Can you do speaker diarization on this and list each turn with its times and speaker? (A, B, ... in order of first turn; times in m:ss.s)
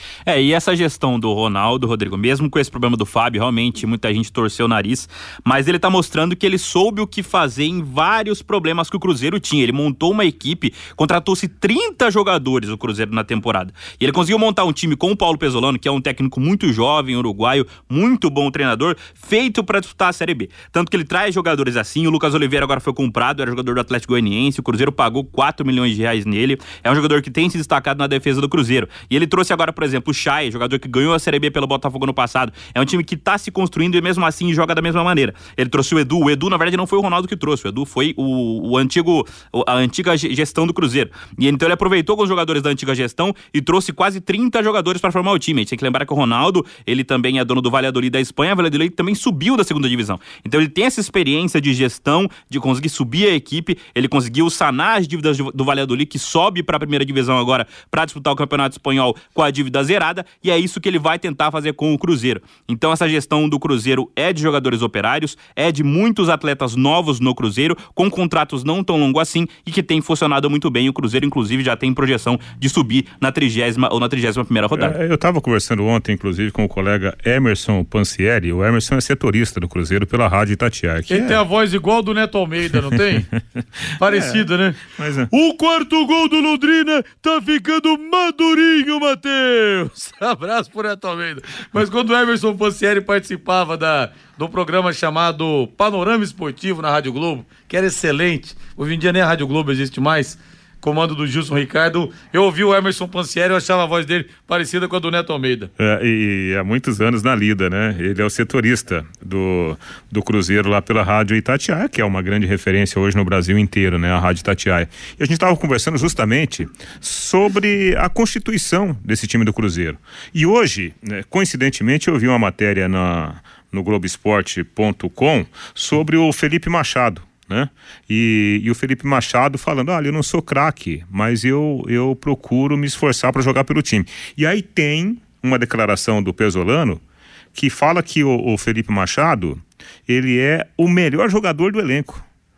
0:00.2-1:14.9 A
1:14.7-1:21.4 B
1:21.1-1:23.3 C
1:24.0-1:24.8 C
1:24.0-1:25.3 B
1:25.3-1:45.7 C
1:45.8-2:17.0 B
2:17.6-2:22.2 B